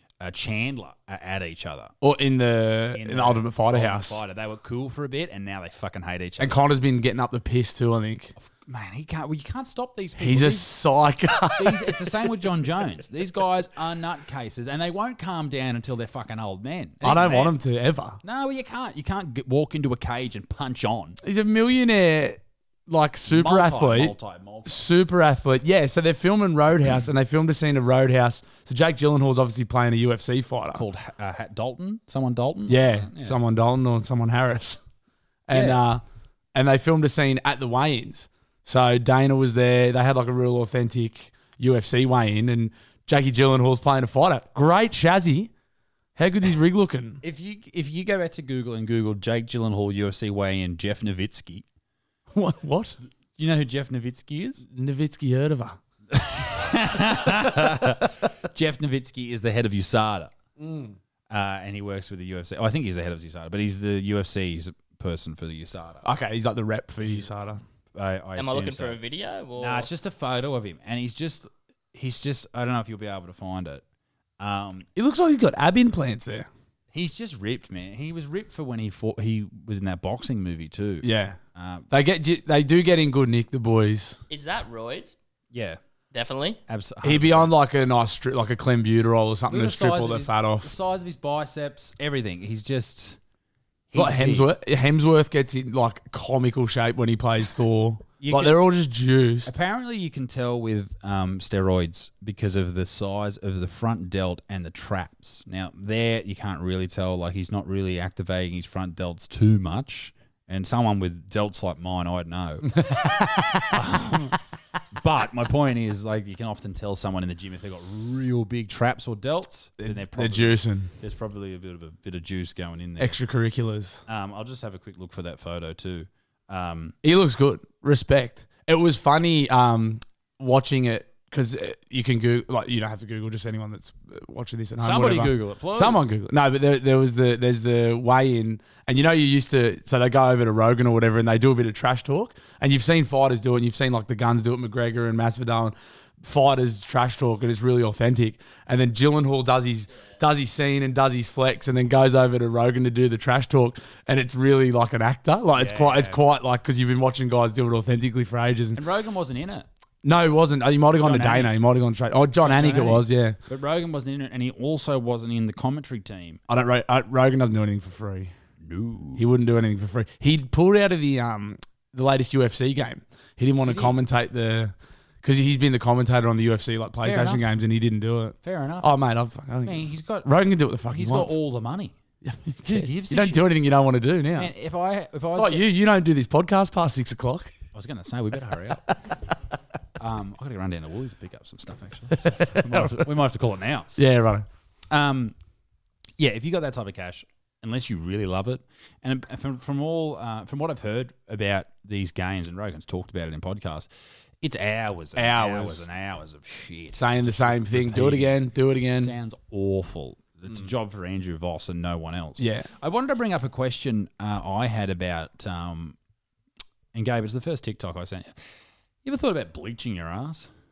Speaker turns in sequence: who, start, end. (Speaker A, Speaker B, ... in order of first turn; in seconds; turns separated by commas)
Speaker A: 0.2-1.9, Speaker B: 2.0-4.2, Speaker A: 2.9-6.6, Speaker B: 6.4-8.3, Speaker A: 8.4-10.7, Speaker B: 10.2-12.3, Speaker A: 11.6-17.6, Speaker B: 17.0-18.2, Speaker A: 18.2-21.2, Speaker B: 21.2-30.8, Speaker A: 23.3-24.9, Speaker A: 30.7-33.4, Speaker B: 32.7-34.8, Speaker B: 35.5-36.0, Speaker A: 35.5-35.8, Speaker B: 36.5-45.5, Speaker B: 46.2-47.2, Speaker A: 47.2-51.7, Speaker B: 52.3-53.0, Speaker A: 53.4-54.6, Speaker B: 54.7-55.8, Speaker A: 56.1-60.3, Speaker B: 60.6-61.0, Speaker A: 61.3-66.0, Speaker B: 66.0-67.6, Speaker A: 67.0-67.3, Speaker A: 68.0-69.0, Speaker C: 68.4-69.9, Speaker A: 69.6-73.8, Speaker A: 74.4-74.9, Speaker B: 75.0-76.5, Speaker A: 76.9-81.9, Speaker B: 81.0-81.4, Speaker B: 81.9-84.2, Speaker C: 84.3-85.2, Speaker A: 85.5-85.8, Speaker C: 86.1-86.6, Speaker A: 86.7-87.5, Speaker B: 87.0-90.7, Speaker A: 89.5-93.2, Speaker A: 93.9-94.5, Speaker B: 93.9-99.5, Speaker A: 98.2-98.7, Speaker A: 99.5-112.9, Speaker B: 112.7-113.8, Speaker A: 113.7-114.4, Speaker A: 114.9-123.2, Speaker B: 119.8-120.9, Speaker B: 123.0-124.0, Speaker A: 124.1-127.0, Speaker B: 127.0-158.8, Speaker A: 134.8-136.1, Speaker A: 155.6-156.2, Speaker A: 158.8-159.7, Speaker B: 160.0-163.4, Speaker A: 161.0-161.6, Speaker A: 162.4-166.4, Speaker B: 166.5-168.3, Speaker A: 168.6-169.3, Speaker B: 169.2-181.4, Speaker A: 173.6-174.0, Speaker A: 177.0-177.5, Speaker A: 178.4-178.9, Speaker A: 179.6-180.3, Speaker A: 180.8-181.9, Speaker B: 182.2-184.5, Speaker A: 182.6-183.6, Speaker A: 184.3-185.7, Speaker B: 185.3-187.5, Speaker A: 187.7-188.8, Speaker A: 190.0-194.0, Speaker B: 192.1-193.1, Speaker B: 194.0-194.5, Speaker A: 194.9-195.4, Speaker A: 196.2-203.9, Speaker A: 204.4-208.4, Speaker B: 205.2-205.8, Speaker B: 206.9-209.1, Speaker A: 208.9-216.0, Speaker B: 212.4-212.7, Speaker A: 216.9-218.4, Speaker A: 219.0-220.5